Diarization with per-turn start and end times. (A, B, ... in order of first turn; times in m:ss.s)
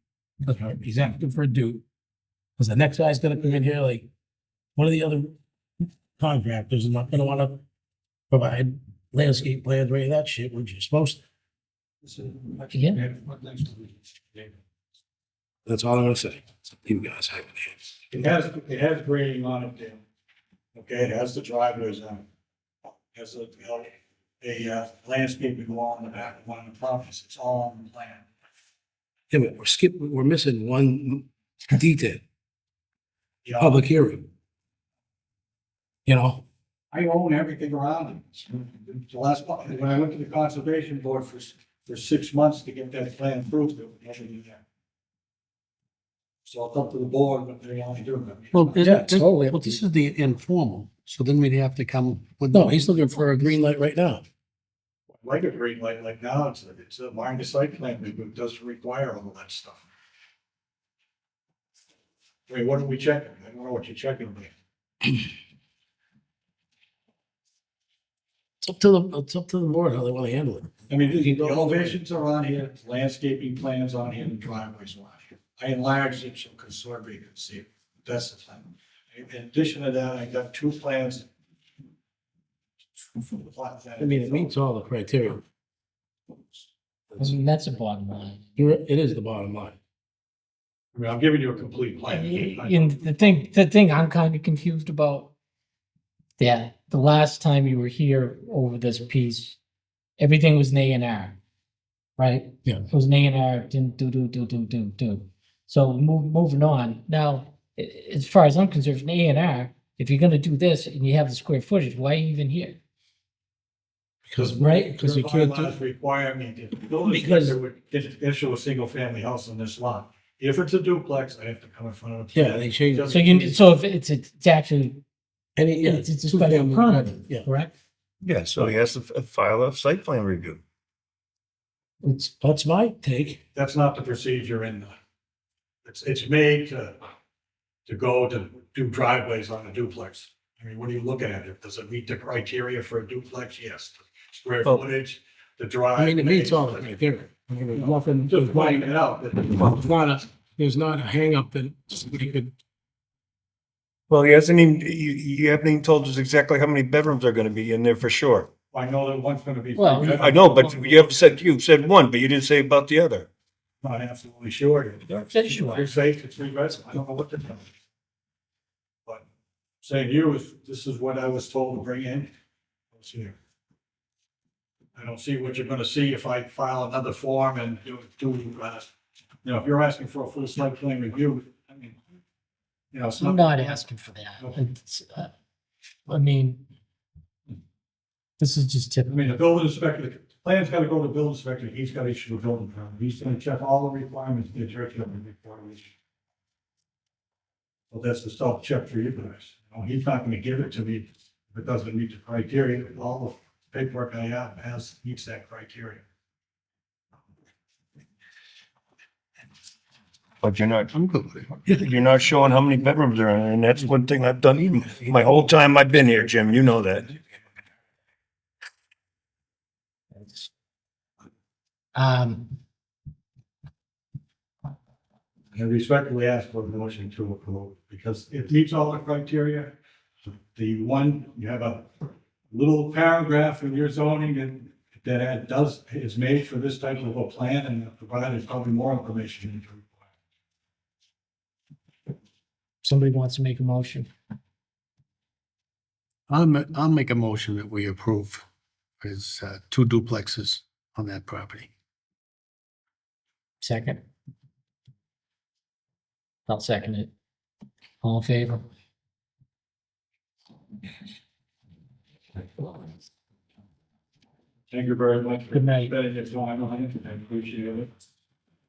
0:00.4-0:01.8 A
0:02.6-0:04.1 A
0:04.8-0:05.3 A
0:06.2-0:07.6 A
0:08.3-0:11.2 A
0:12.0-0:14.6 B
0:12.7-0:13.0 C
0:15.6-0:17.9 A
0:18.1-0:20.0 B
0:20.7-0:22.2 B
0:23.1-0:28.2 B
0:29.3-0:32.2 A
0:33.4-0:33.9 B
0:33.6-0:34.3 A
0:36.0-0:36.4 A
0:36.9-0:44.6 B
0:46.4-0:48.8 B
0:48.6-0:52.9 D
0:48.8-0:49.6 C
0:48.8-0:49.8 A
0:52.5-0:54.2 A
0:55.1-0:59.8 B
1:02.5-1:04.5 B
1:08.6-1:12.0 A
1:10.9-1:21.3 B
1:23.1-1:24.5 B
1:24.0-1:25.4 A
1:27.2-1:28.4 C
1:28.6-1:29.8 A
1:30.9-1:32.9 B
1:32.0-1:35.3 C
1:36.4-1:39.6 C
1:40.2-1:41.4 C
1:42.2-1:52.8 C
1:54.3-1:55.7 A
1:54.4-2:03.6 B
1:54.6-1:55.1 C
1:57.0-1:57.6 A
2:02.3-2:03.1 A
2:03.1-2:05.0 C
2:05.6-2:07.5 A
2:05.8-2:07.7 C
2:08.2-2:10.6 E
2:12.0-2:12.3 C
2:12.4-2:13.4 A
2:13.5-2:14.9 B
2:15.8-2:17.0 B
2:17.8-2:27.0 B
2:26.0-2:28.9 A
2:27.7-2:29.7 B
2:29.5-2:32.5 A
2:34.1-2:38.5 E
2:38.7-2:40.4 B
2:39.7-2:40.8 C
2:40.1-2:43.3 E
2:43.8-2:47.7 B
2:45.2-2:45.9 C
2:49.8-2:52.3 B
2:52.9-2:53.4 B
2:55.0-2:58.9 B
2:59.4-3:02.0 B
3:02.9-3:03.8 B
3:03.1-3:05.3 C
3:06.1-3:06.6 C
3:08.4-3:09.4 C
3:09.1-3:15.9 B
3:17.9-3:26.0 B
3:30.4-3:31.0 E
3:30.9-3:31.6 D
3:31.6-3:37.1 E
3:40.1-3:40.5 C
3:41.9-3:42.5 C
3:45.5-3:49.8 B
3:50.5-4:00.0 B
4:02.8-4:04.1 C
4:06.3-4:08.4 D
4:09.0-4:11.7 D
4:13.6-4:14.0 C
4:16.5-4:17.1 C
4:18.0-4:18.6 C
4:24.7-4:27.9 B
4:25.5-4:25.9 C